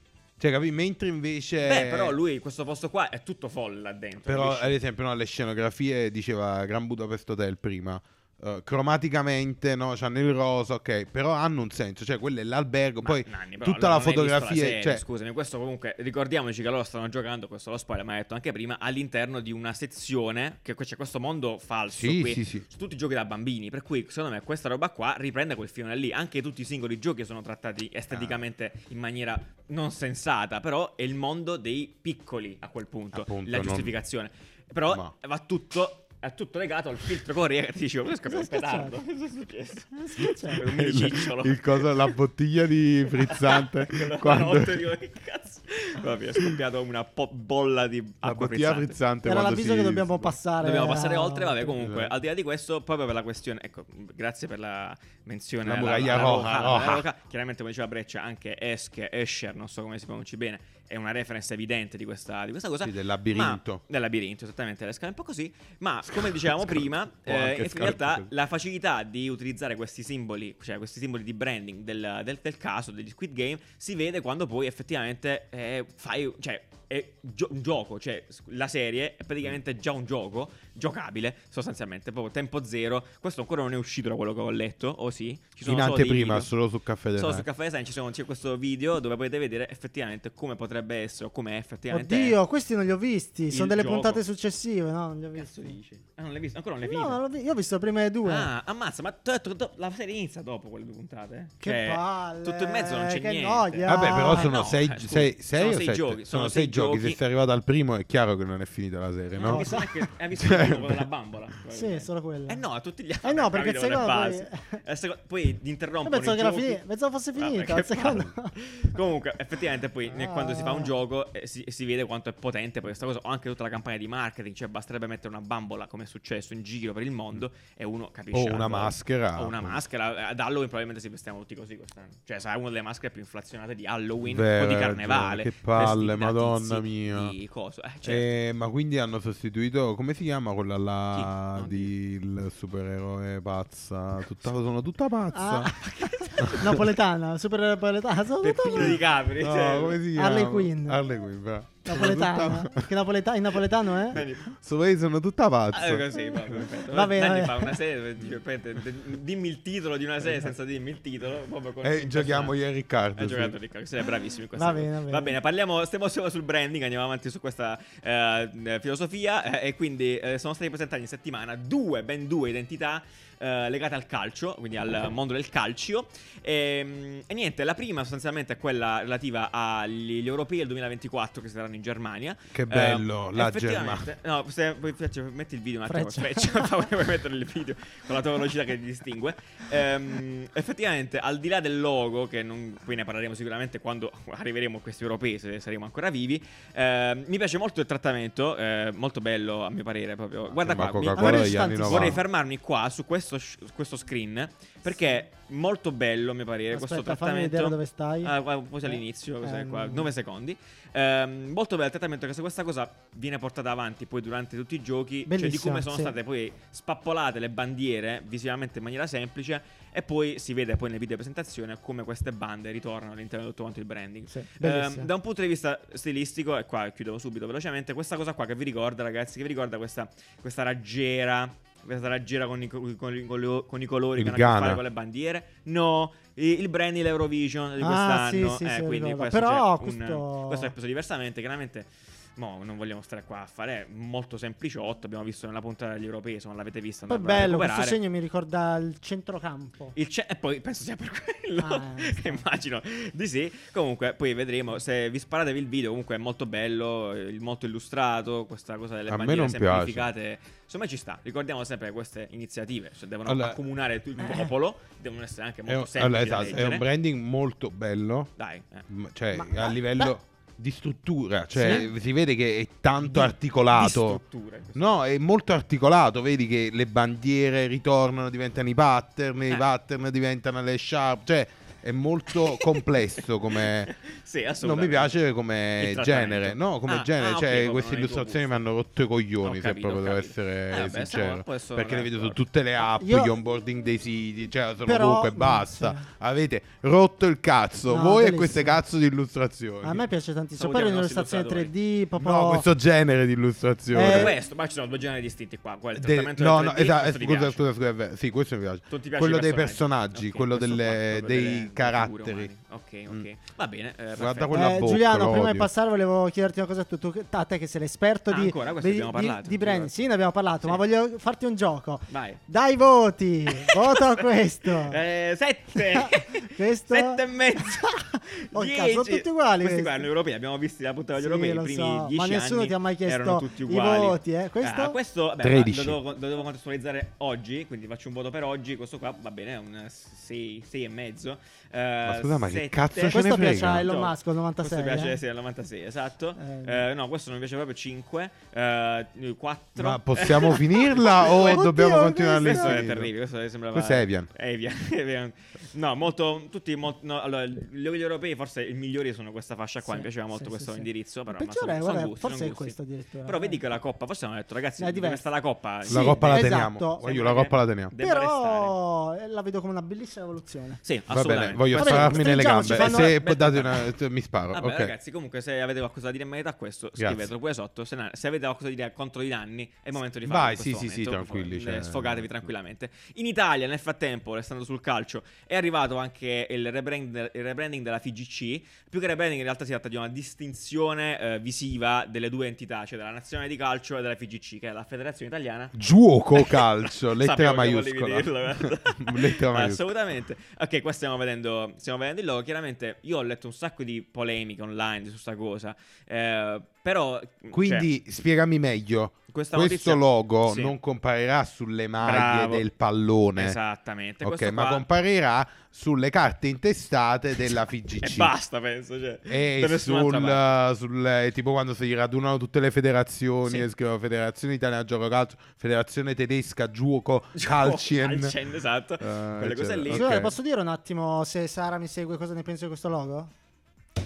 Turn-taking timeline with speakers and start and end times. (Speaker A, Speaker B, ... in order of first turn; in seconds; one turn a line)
Speaker A: 0.4-2.2
Speaker B: 1.6-4.8
Speaker A: 4.2-15.0
Speaker B: 13.0-42.1
Speaker A: 21.9-22.6
Speaker A: 28.1-28.4
Speaker A: 33.1-33.9
Speaker C: 38.3-39.0
Speaker C: 40.0-40.6
Speaker A: 40.5-44.9
Speaker B: 43.2-49.0
Speaker A: 48.2-50.4
Speaker C: 49.2-51.7
Speaker B: 50.6-86.5
Speaker A: 51.8-52.1
Speaker A: 55.6-57.0
Speaker A: 62.8-63.8
Speaker A: 66.1-68.3
Speaker A: 85.6-87.5
Speaker B: 87.1-92.4
Speaker C: 91.9-95.7
Speaker B: 93.5-94.2
Speaker B: 95.3-97.2
Speaker C: 96.8-98.5
Speaker B: 98.2-107.2
Speaker C: 101.6-104.6
Speaker A: 103.8-111.1
Speaker B: 109.3-116.8
Speaker C: 109.4-110.0
Speaker C: 111.7-112.6
Speaker C: 113.2-114.8
Speaker C: 116.0-118.5
Speaker B: 117.3-138.3
Speaker C: 120.1-120.9
Speaker A: 128.3-129.8
Speaker A: 134.2-137.3
Speaker A: 138.0-145.8
Speaker B: 141.1-141.9
Speaker C: 145.3-149.0
Speaker B: 145.8-146.7
Speaker A: 146.4-146.8
Speaker B: 148.4-150.0
Speaker A: 148.8-152.9
Speaker C: 150.1-151.0
Speaker C: 151.8-154.2
Speaker B: 154.1-154.5
Speaker A: 154.4-156.4
Speaker B: 155.7-162.6
Speaker C: 156.7-157.8
Speaker A: 161.8-163.5
Speaker B: 163.2-248.0
Speaker C: 164.5-165.4
Speaker A: 182.5-184.1
Speaker C: 185.9-186.7
Speaker A: 200.5-202.2
Speaker C: 201.1-202.2
Speaker C: 204.9-205.2
Speaker C: 206.7-210.1
Speaker C: 215.3-216.2
Speaker C: 224.3-225.1
Speaker A: 234.2-234.8
Speaker C: 237.8-240.7
Speaker C: 247.1-249.9
Speaker B: 249.9-266.9
Speaker C: 251.6-252.4
Speaker A: 259.1-260.1
Speaker A: 263.2-263.6
Speaker C: 264.2-264.5
Speaker A: 265.7-268.3
Speaker B: 268.4-268.9
Speaker A: 268.9-274.2
Speaker C: 269.3-270.1
Speaker B: 271.6-271.9
Speaker C: 271.6-271.9
Speaker B: 273.0-274.9
Speaker A: 274.7-283.9
Speaker B: 282.3-282.9
Speaker B: 283.5-285.2
Speaker A: 284.6-300.0
Speaker B: 285.8-288.6
Speaker B: 289.4-292.4
Speaker C: 292.9-293.3
Speaker C: 294.8-296.0
Speaker C: 297.9-298.8
Speaker C: 299.8-302.6
Speaker B: 300.6-301.7
Speaker A: 302.2-304.4
Speaker C: 303.9-304.4
Speaker B: 304.0-307.6
Speaker A: 305.9-312.5
Speaker B: 308.9-314.6
Speaker A: 314.1-315.7
Speaker C: 314.5-325.0
Speaker B: 318.3-319.9
Speaker B: 322.1-322.4
Speaker B: 323.5-324.2
Speaker B: 324.8-351.6
Speaker C: 325.8-330.1
Speaker C: 331.2-335.0
Speaker A: 335.4-336.0
Speaker A: 342.0-343.9
Speaker C: 343.1-345.2
Speaker C: 346.4-346.8
Speaker A: 349.8-353.1
Speaker C: 351.1-352.9
Speaker B: 352.4-368.7
Speaker A: 353.7-354.3
Speaker C: 359.8-363.6
Speaker C: 364.8-365.2
Speaker C: 365.8-367.0
Speaker A: 365.9-367.9
Speaker C: 368.0-370.8
Speaker B: 370.8-373.9
Speaker A: 371.1-374.9
Speaker C: 371.7-373.2
Speaker B: 374.5-395.8
Speaker A: 377.0-377.3
Speaker A: 380.2-382.5
Speaker A: 395.7-399.9
Speaker B: 396.3-407.9
Speaker A: 407.5-413.6
Speaker B: 409.3-410.8
Speaker B: 412.0-412.6
Speaker B: 413.4-414.8
Speaker A: 414.2-418.3
Speaker B: 418.0-420.4
Speaker A: 419.3-428.4
Speaker B: 427.3-430.2
Speaker A: 429.0-430.3
Speaker C: 429.9-433.3